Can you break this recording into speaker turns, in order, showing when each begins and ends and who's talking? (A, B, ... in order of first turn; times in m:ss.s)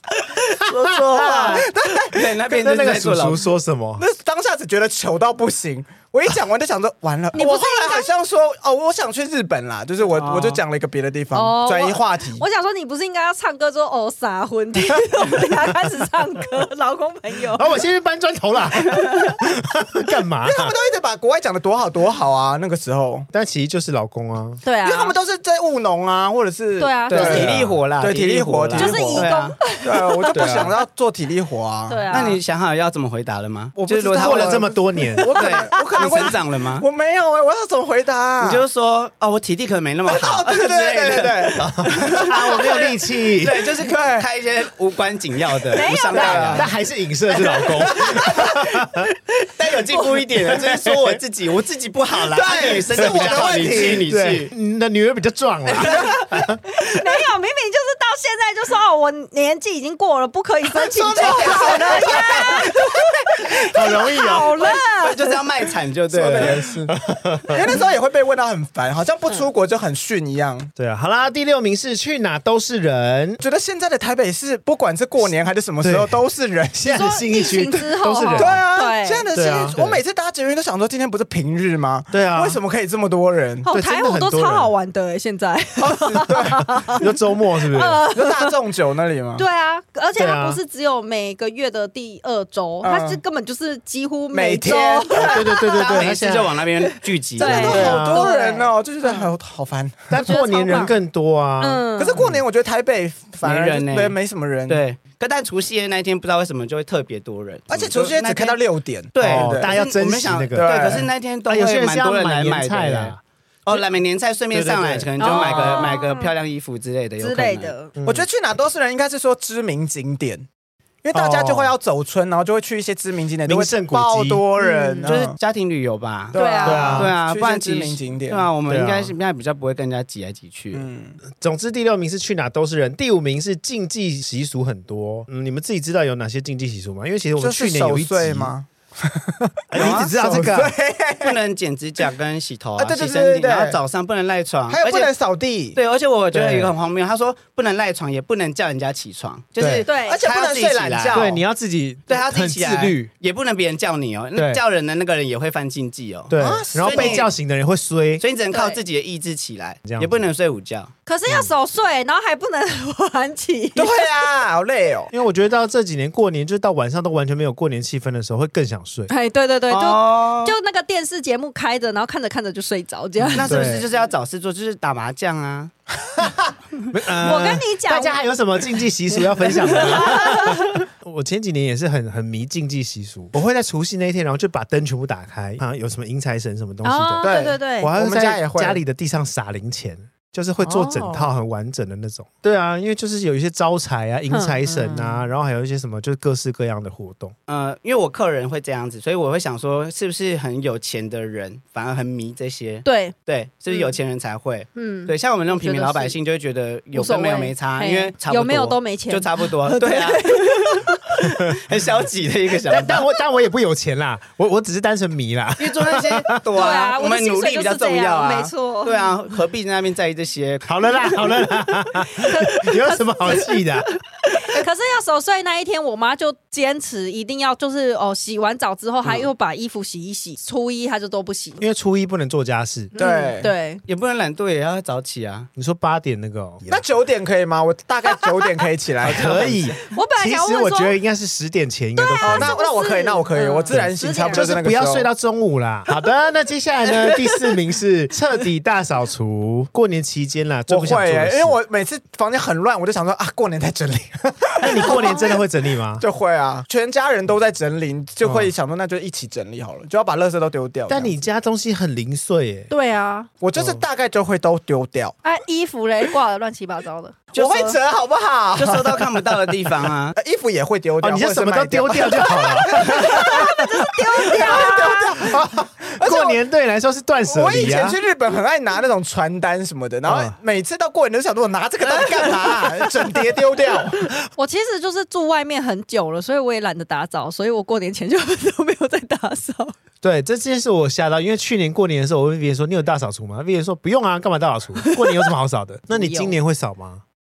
0:00.4-0:03.5 A
0:00.7-0:01.7 B
0:01.1-0:02.4 C
0:02.5-0:04.0 B
0:04.0-0:12.4 C
0:07.3-0:08.1 D
0:10.0-0:10.6 A
0:11.3-0:17.7 D
0:17.5-0:20.7 B
0:20.4-0:23.3 C
0:23.3-0:24.6 B
0:24.6-0:25.1 D
0:24.8-0:32.1 C
0:26.8-0:27.5 D
0:27.1-0:29.6 A
0:27.2-0:27.8 B
0:28.7-0:30.7 D
0:30.3-0:30.7 A
0:31.9-0:32.4 D
0:32.1-0:34.7 A
0:33.8-0:38.6 C
0:34.1-0:35.3 B
0:35.0-0:35.6 D
0:35.3-0:36.8 A
0:38.4-0:46.7 A
0:40.1-0:42.9 C
0:41.8-0:43.7 B
0:43.6-0:44.3 C
0:45.7-0:46.5 D
0:46.1-0:46.7 C
0:46.1-0:49.1 B
0:47.5-0:48.6 C
0:47.6-0:47.8 A
0:49.4-0:54.5 A
0:50.6-0:51.2 B
0:52.2-0:54.0 C
0:52.9-0:56.6 B
0:55.8-0:56.0 A
0:55.8-0:56.1 C
0:56.7-1:05.4 D
1:00.7-1:03.1 C
1:03.6-1:04.6 B
1:04.6-1:06.7 A
1:06.1-1:10.7 C
1:06.4-1:07.6 B
1:10.8-1:13.4 B
1:13.4-1:17.0 C
1:15.8-1:16.2 B
1:16.7-1:18.6 B
1:16.8-1:19.2 D
1:18.3-1:23.7 C
1:19.3-1:20.0 B
1:22.1-1:22.6 B
1:23.6-1:28.5 D
1:23.7-1:24.7 B
1:25.8-1:26.9 C
1:26.9-1:28.0 B
1:28.1-1:29.4 C
1:29.4-1:36.0 D
1:30.2-1:30.6 B
1:32.8-1:33.2 C
1:34.3-1:35.4 C
1:35.1-1:36.6 B
1:35.7-1:38.0 A
1:36.8-1:39.2 D
1:37.4-1:40.2 C
1:37.6-1:38.3 B
1:40.1-1:42.4 B
1:40.2-1:41.0 D
1:41.6-1:42.2 D
1:42.0-1:44.8 C
1:43.4-1:48.6 A
1:47.7-1:49.7 C
1:49.1-1:57.7 A
1:49.2-1:53.8 B
1:50.5-1:51.1 C
1:54.5-1:55.1 B
1:55.2-1:56.3 D
1:55.4-1:55.7 C
1:57.2-1:57.9 D
1:57.9-1:58.3 B
1:58.0-2:00.4 C
2:01.0-2:05.4 C
2:01.1-2:01.7 B
2:03.4-2:04.4 B
2:04.6-2:05.1 D
2:05.0-2:10.9 A
2:06.3-2:08.5 C
2:06.3-2:07.0 D
2:06.6-2:07.1 B
2:08.7-2:09.1 B
2:10.7-2:11.2 C
2:11.3-2:18.5 B
2:17.4-2:21.4 C
2:19.7-2:20.7 B
2:19.8-2:20.1 A
2:21.2-2:25.1 A
2:22.8-2:23.8 C
2:24.7-2:25.8 C
2:25.7-2:31.4 A
2:26.3-2:26.7 B
2:29.6-2:29.8 B
2:29.8-2:30.2 D
2:30.0-2:31.4 C
2:31.1-2:33.1 B
2:32.1-2:37.3 A
2:34.3-2:34.6 B
2:36.3-2:38.2 B
2:36.4-2:37.3 C
2:38.2-2:40.9 A
2:38.5-2:38.8 D
2:39.9-2:40.2 B
2:41.0-2:44.0 D
2:41.3-2:41.5 B
2:43.7-2:45.1 C
2:45.1-2:49.1 B
2:49.1-2:53.5 D
2:49.7-2:50.6 A
2:53.3-2:55.7 A
2:53.4-2:53.9 B
2:56.2-3:17.3 B
2:57.2-2:58.2 D
2:59.6-3:00.8 D
3:06.8-3:07.9 D
3:07.2-3:08.8 C
3:10.6-3:11.3 D
3:14.3-3:15.0 D
3:14.9-3:15.1 C
3:17.5-3:33.0 A
3:22.8-3:23.1 D
3:23.7-3:23.9 D
3:24.8-3:26.2 D
3:26.9-3:31.2 D
3:32.7-3:36.4 B
3:35.6-3:41.2 A
3:36.5-3:39.1 D
3:40.6-3:43.9 B
3:42.1-3:43.6 D
3:44.3-3:51.6 D
3:51.6-3:52.9 B
3:52.9-3:53.8 D
3:53.0-3:53.5 C
3:53.8-3:55.5 A
3:55.6-3:56.8 B
3:56.7-3:59.7 C
3:59.0-4:02.6 B
3:59.1-3:59.5 A
3:59.9-4:00.9 D
4:02.0-4:04.6 D
4:02.2-4:05.1 C
4:03.7-4:11.6 B
4:10.7-4:15.4 C
4:14.6-4:16.0 B
4:14.8-4:15.3 D
4:16.0-4:21.1 C
4:18.2-4:18.5 B
4:20.9-4:22.7 B
4:22.7-4:23.3 D
4:23.4-4:25.2 C
4:23.6-4:23.8 B
4:25.2-4:27.2 D
4:27.3-4:27.8 A
4:27.3-4:29.1 C
4:28.6-4:30.2 A
4:30.1-4:33.5 C
4:31.0-4:33.6 B
4:32.4-4:35.2 D
4:34.2-4:36.4 C
4:34.4-4:38.0 B
4:37.2-4:44.1 C
4:40.0-4:40.3 B
4:44.3-4:49.7 D
4:50.0-4:57.0 B
4:54.8-4:55.3 D
4:55.9-4:56.3 D